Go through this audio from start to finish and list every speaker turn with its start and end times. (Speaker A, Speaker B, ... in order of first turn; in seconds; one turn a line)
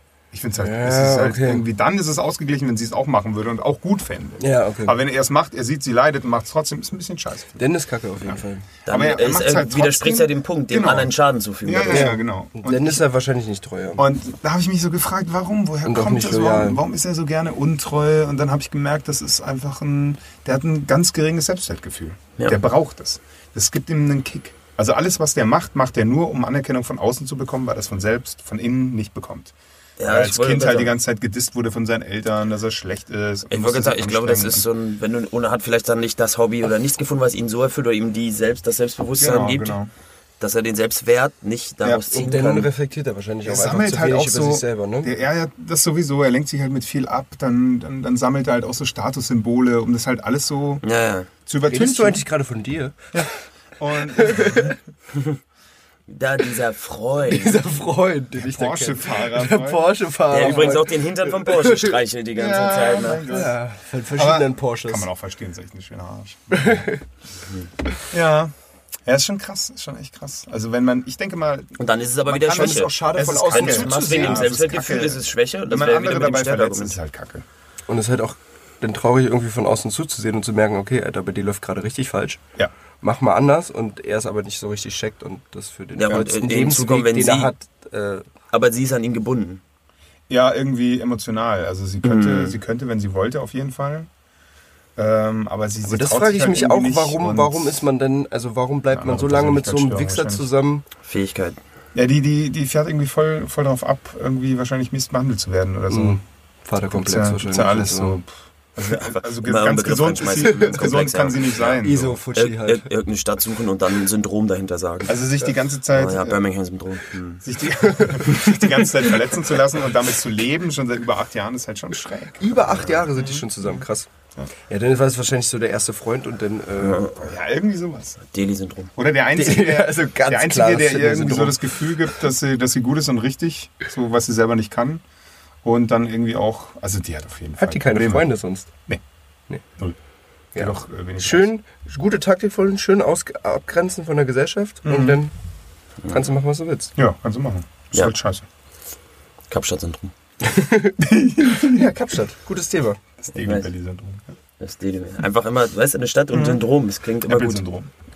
Speaker A: 0.3-7.7
Speaker B: 0.6-1.6
Speaker B: 4.4-5.0
Speaker B: 7.6-8.7
Speaker A: 8.2-11.1
Speaker C: 8.8-12.1
Speaker A: 11.6-13.0
Speaker B: 11.9-14.0
Speaker A: 14.0-34.7
Speaker B: 15.8-16.8
Speaker C: 30.0-30.9
Speaker C: 33.5-39.8
Speaker A: 39.2-39.9
Speaker C: 40.4-42.7
Speaker B: 42.1-45.1
Speaker A: 43.4-50.8
Speaker C: 50.8-51.3
Speaker A: 51.5-52.2
Speaker B: 51.7-53.2
Speaker A: 53.1-54.8
Speaker B: 54.1-54.6
Speaker C: 55.1-55.4
Speaker C: 56.1-57.6
Speaker B: 57.2-62.0
Speaker A: 58.4-60.8
Speaker C: 60.3-63.3
Speaker A: 62.3-63.5
Speaker B: 63.3-65.1
Speaker A: 64.1-66.8
Speaker B: 66.5-67.0
Speaker A: 68.1-68.5
Speaker A: 69.0-77.5
Speaker C: 71.8-77.0
Speaker B: 72.4-74.5
Speaker B: 77.9-82.4
Speaker B: 83.0-88.3
Speaker C: 86.0-87.5
Speaker C: 88.5-89.6
Speaker A: 90.3-94.1
Speaker C: 92.0-92.6
Speaker A: 95.0-97.8
Speaker B: 95.8-100.8
Speaker A: 98.9-100.5
Speaker C: 101.0-101.6
Speaker A: 101.9-106.2
Speaker B: 105.9-108.2
Speaker A: 106.9-112.2
Speaker C: 108.9-115.2
Speaker B: 110.4-110.8
Speaker B: 111.7-112.9
Speaker A: 115.1-116.4
Speaker C: 115.9-117.4
Speaker A: 117.4-123.5
Speaker B: 117.8-119.1
Speaker B: 122.4-124.1
Speaker B: 124.7-127.1
Speaker C: 126.8-127.2
Speaker A: 127.0-128.2
Speaker C: 128.3-128.9
Speaker A: 128.9-135.0
Speaker B: 129.3-131.7
Speaker A: 135.6-138.3
Speaker B: 137.6-138.7
Speaker B: 140.5-145.3
Speaker A: 140.6-141.5
Speaker A: 144.8-145.2
Speaker B: 146.1-146.9
Speaker A: 146.9-148.4
Speaker C: 149.5-150.1
Speaker B: 150.5-151.0
Speaker A: 151.0-151.9
Speaker B: 151.6-153.0
Speaker A: 153.2-154.3
Speaker C: 153.3-153.7
Speaker C: 154.6-157.6
Speaker A: 156.3-156.6
Speaker A: 157.2-157.9